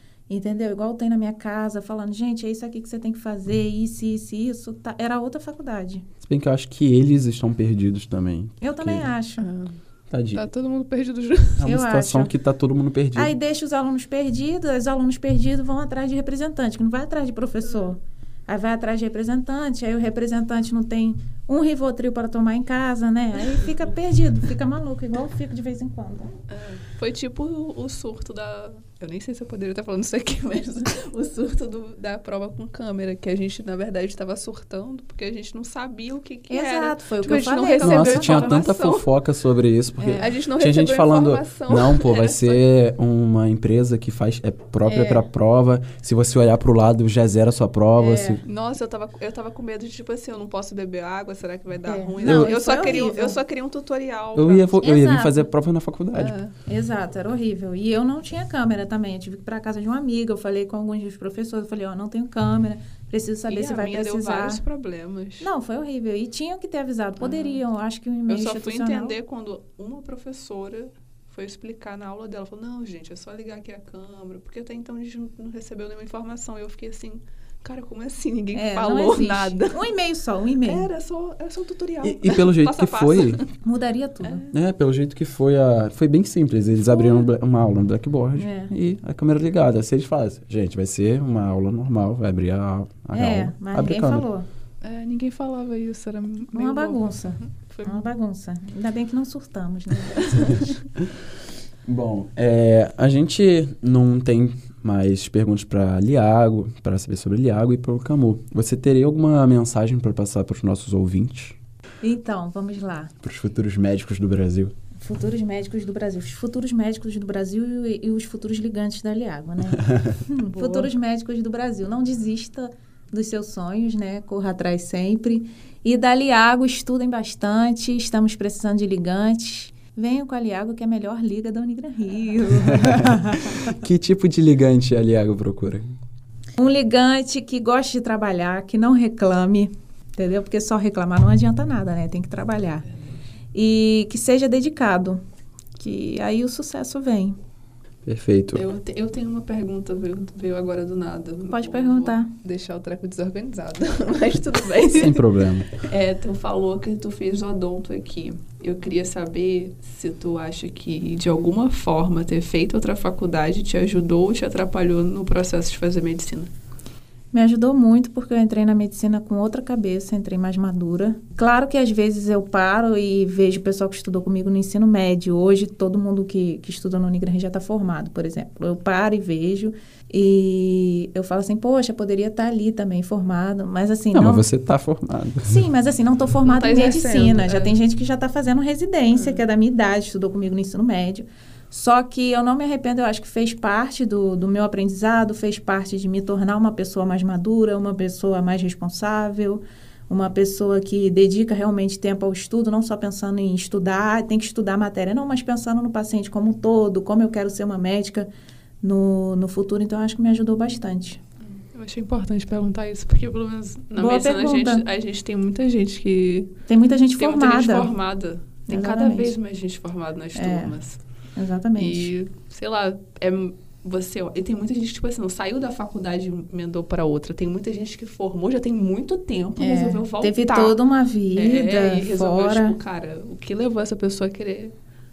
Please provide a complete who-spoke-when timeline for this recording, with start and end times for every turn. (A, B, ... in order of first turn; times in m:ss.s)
0:00.3-0:06.1 A
0:06.2-0:09.1 B
0:08.6-0:09.5 A
0:09.4-0:09.8 C
0:10.1-0:10.4 B
0:10.4-0:11.6 C
0:11.6-0:13.4 B
0:11.6-0:12.3 A
0:13.1-0:26.3 A
0:26.5-0:39.1 C
0:36.5-0:38.7 A
0:37.8-0:48.4 B
0:40.0-0:40.2 A
0:40.2-0:42.6 C
0:44.8-0:45.3 A
0:48.0-0:48.4 A
0:48.4-0:54.8 C
0:51.8-0:53.4 A
0:52.2-0:52.6 B
0:54.4-0:56.4 B
0:54.8-0:55.5 A
0:56.1-0:56.6 C
0:56.6-1:04.6 A
1:03.5-1:05.5 C
1:05.4-1:09.2 A
1:07.2-1:07.6 C
1:08.3-1:19.9 C
1:18.5-1:20.9 A
1:20.6-1:23.5 C
1:22.0-1:23.4 B
1:23.6-1:24.4 A
1:24.2-1:24.5 C
1:24.5-1:34.2 B
1:26.9-1:27.3 C
1:28.4-1:28.7 A
1:33.1-1:34.5 A
1:34.8-1:38.1 C
1:36.5-1:40.7 A
1:40.0-1:40.7 C
1:41.9-1:51.6 B
1:52.0-1:53.1 A
1:53.2-1:54.7 B
1:55.0-2:13.7 A
1:59.7-2:00.2 B
2:00.5-2:00.9 C
2:12.5-2:16.0 B
2:16.6-2:22.9 A
2:23.5-2:25.2 A
2:25.8-2:27.4 A
2:28.1-2:28.6 B
2:28.5-2:46.5 C
2:31.5-2:32.3 A
2:34.9-2:35.8 B
2:47.3-3:04.4 A
3:04.1-3:05.7 B
3:05.5-3:28.3 A
3:06.4-3:07.7 C
3:28.8-3:31.2 A
3:31.5-3:36.6 C
3:34.0-3:34.8 A
3:36.7-3:37.9 A
3:37.2-3:41.0 C
3:38.7-3:39.4 A
3:40.4-3:40.8 A
3:41.4-3:42.1 A
3:41.8-3:50.8 C
3:49.6-3:52.8 A
3:51.4-3:54.7 C